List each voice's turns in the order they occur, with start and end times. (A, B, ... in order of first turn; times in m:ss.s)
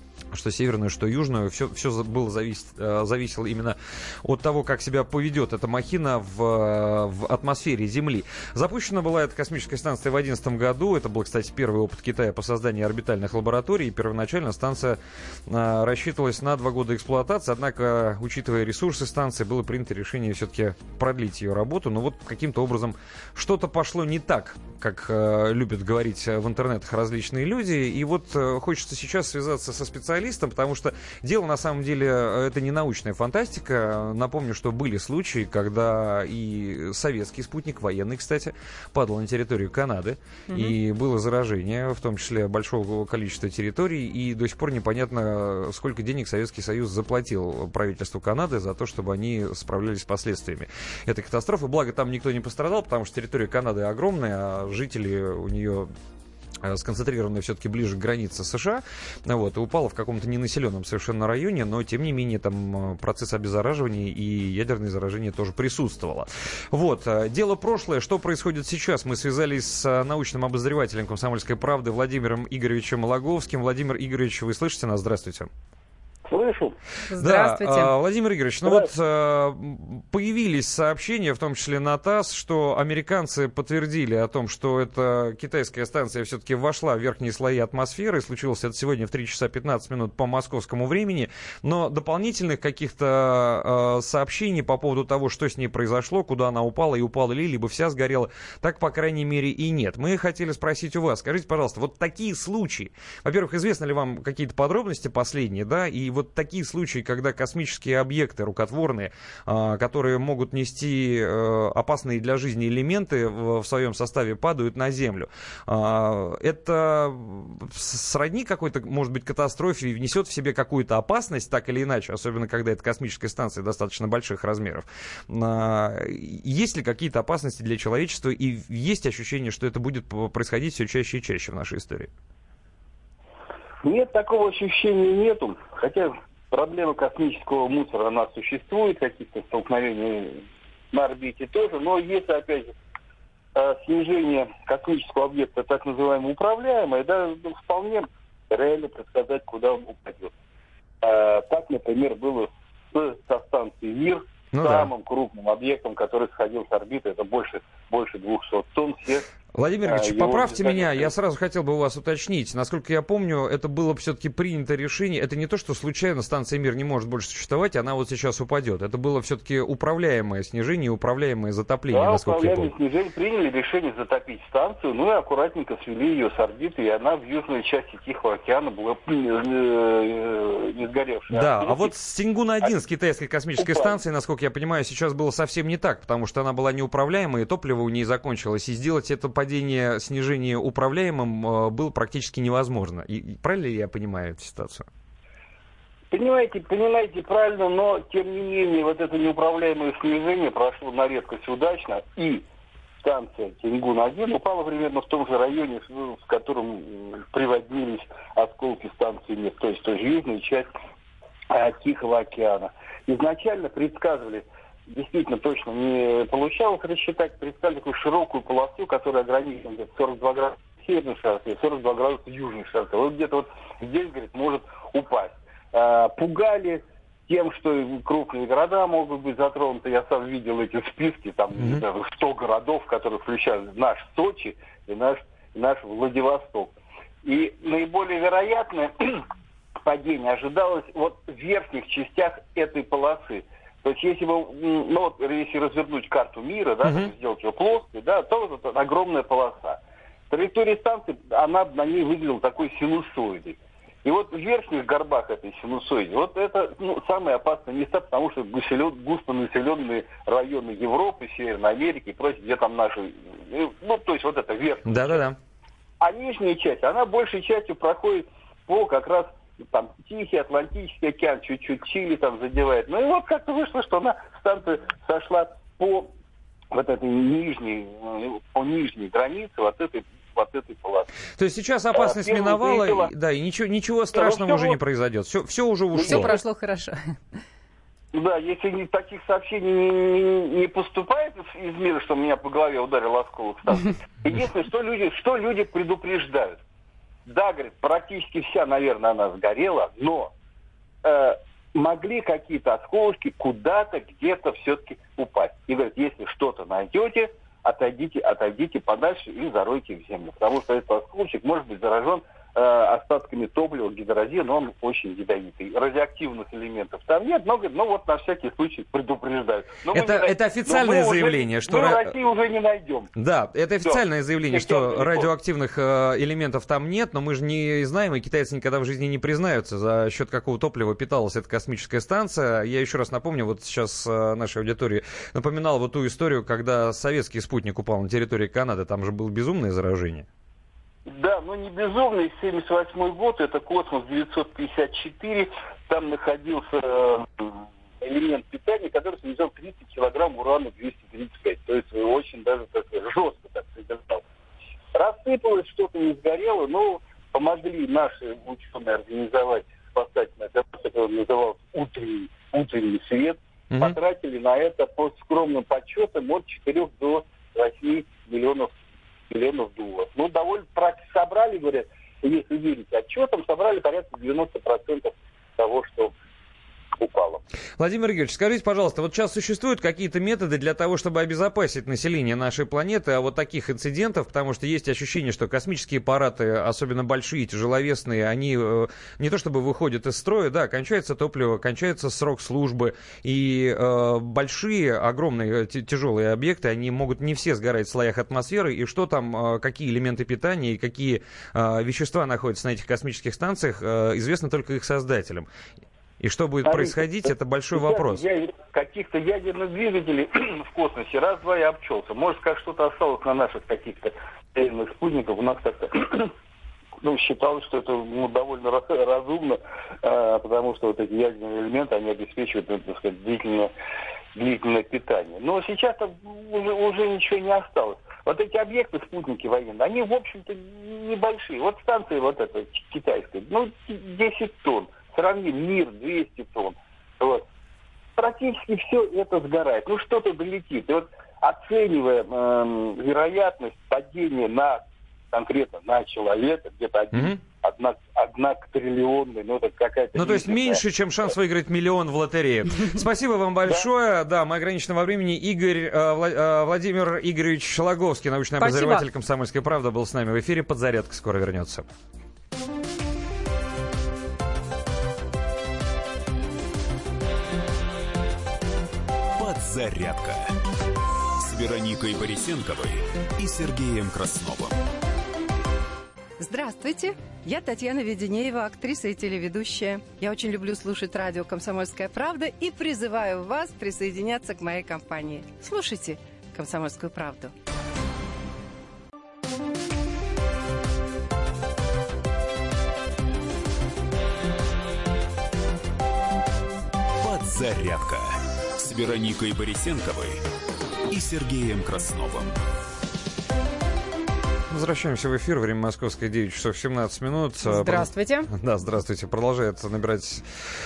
0:00.3-0:55.9 A
0:40.5-0:40.7 B
0:56.6-1:15.5 A
1:16.3-1:16.7 C
1:17.1-1:17.9 B
1:17.2-2:12.1 A
2:13.8-2:22.7 C
2:23.6-2:30.3 C
2:31.0-2:39.2 C
2:34.5-2:34.9 A
2:39.5-2:52.7 A
2:39.8-2:41.1 C
2:51.9-3:01.9 C
3:01.3-3:14.8 A
3:03.6-3:04.0 C
3:16.1-3:22.4 C
3:23.0-3:30.7 C
3:31.5-3:56.7 C
3:51.6-3:51.8 A
3:57.2-3:59.2 C
3:59.8-4:09.8 C
4:06.8-4:07.1 A
4:10.3-4:25.2 C
4:24.8-4:25.4 A
4:26.0-4:36.1 C
4:36.7-4:41.1 C
4:41.4-4:46.4 A
4:41.9-4:43.1 C
4:44.1-4:44.8 C
4:46.0-4:46.3 C
4:46.0-4:47.1 B
4:48.1-4:56.6 C
4:57.2-5:00.3 C
5:01.0-5:23.1 C
5:19.9-5:22.1 A
5:23.1-5:40.3 A
5:23.8-5:25.3 C
5:41.0-5:54.2 C
5:54.9-6:08.7 C
6:03.7-6:04.0 A
6:09.3-6:16.1 C
6:17.0-6:17.4 C
6:17.8-6:45.5 A
6:46.2-6:48.3 A
6:46.6-6:47.0 C
6:47.7-6:56.3 C
6:57.0-7:03.7 C
7:04.3-7:17.4 C
7:18.2-7:30.8 C
7:27.1-7:27.4 A
7:30.1-7:41.8 A
7:38.6-7:39.0 B
7:49.4-7:50.6 D
7:51.4-7:54.8 D
7:56.4-8:07.5 E
8:17.2-8:20.4 D
8:21.1-8:22.6 D
8:24.7-8:30.4 A
8:27.6-8:28.5 B